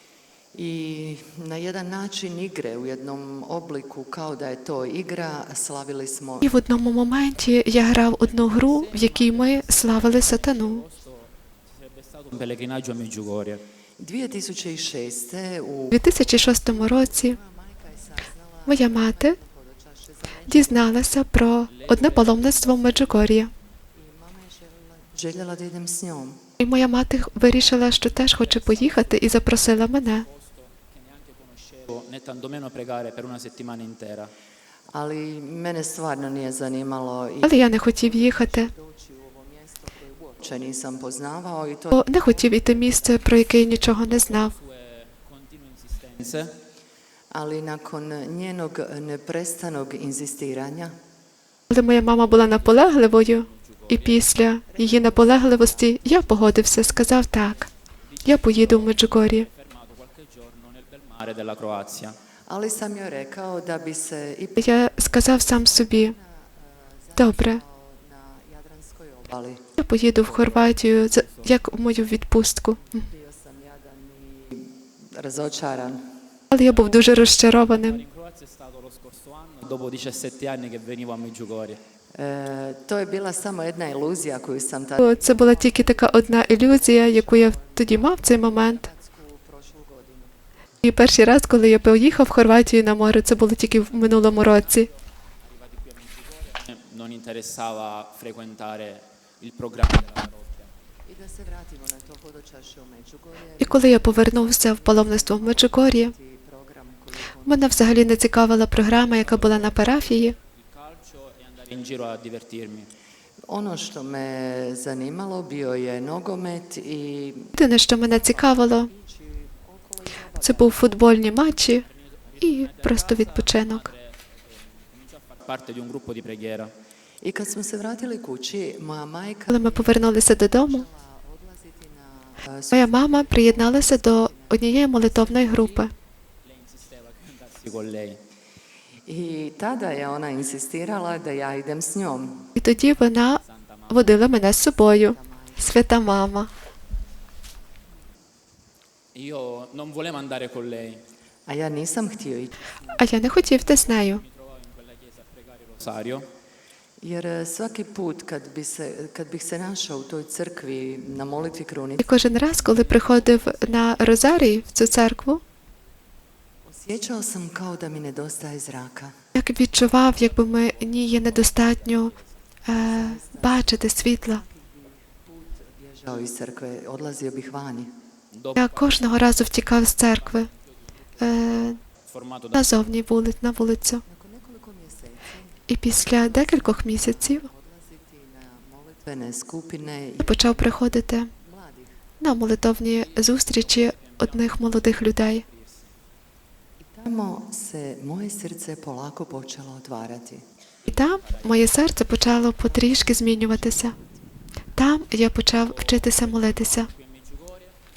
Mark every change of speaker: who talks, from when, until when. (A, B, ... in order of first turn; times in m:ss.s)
0:00.5-0:06.5 A
0:06.4-0:10.8 B
0:08.1-0:13.6 C
0:14.0-0:21.1 A
0:15.9-0:17.4 B
0:18.7-0:19.4 B
0:20.5-0:23.5 B
0:21.7-0:23.3 C
0:24.0-0:26.4 A
0:26.6-0:30.2 B
0:27.8-0:34.3 C
0:34.9-0:43.7 A
0:37.4-0:38.7 B
0:41.9-0:44.5 B
0:43.9-0:46.5 C
0:47.3-0:50.9 A
0:51.7-0:57.7 B
0:52.2-0:54.3 C
0:54.7-0:57.6 A
0:58.1-1:02.1 C
0:58.2-0:59.5 B
1:02.5-1:09.6 A
1:04.6-1:06.1 B
1:07.2-1:07.6 B
1:09.8-1:13.0 B
1:10.2-1:11.6 C
1:12.8-1:16.1 A
1:16.5-1:18.0 B
1:16.7-1:21.8 C
1:22.2-1:30.3 A
1:25.0-1:28.9 B
1:30.8-1:34.9 B
1:33.9-1:35.0 C
1:35.5-1:40.7 C
1:41.0-1:47.8 A
1:43.6-1:46.1 B
1:47.4-1:50.4 B
1:49.2-1:52.9 C
1:53.5-2:01.0 A
1:57.6-1:58.9 B
2:00.4-2:01.8 B
2:01.7-2:06.7 C
2:02.4-2:03.9 B
2:07.2-2:15.4 A
2:09.5-2:10.8 B
2:12.7-2:15.9 B
2:15.4-2:15.9 C
2:16.4-2:18.2 C
2:19.0-2:22.5 A
2:22.6-2:26.5 B
2:23.4-2:24.2 C
2:24.8-2:25.7 A
2:29.2-2:31.0 C
2:31.5-2:33.1 A
2:33.0-2:34.2 B
2:33.6-2:36.3 C
2:37.0-2:42.1 A
2:42.0-2:45.4 B
2:42.4-2:44.9 C
2:46.6-2:49.1 A
2:49.4-2:52.1 B
2:49.7-2:52.3 C
2:52.7-2:54.4 B
2:52.7-2:57.9 A
2:58.3-3:00.5 C
2:58.6-3:00.5 B
3:01.2-3:01.8 B
3:02.1-3:02.9 C
3:02.6-3:04.0 B
3:04.1-3:11.9 A
3:05.7-3:07.5 B
3:10.2-3:11.3 B
3:12.2-3:15.4 B
3:12.9-3:15.9 C
3:16.8-3:20.4 A
3:20.8-3:22.0 C
3:20.9-3:23.9 B
3:22.6-3:24.1 A
3:24.8-3:26.9 B
3:25.5-3:27.8 C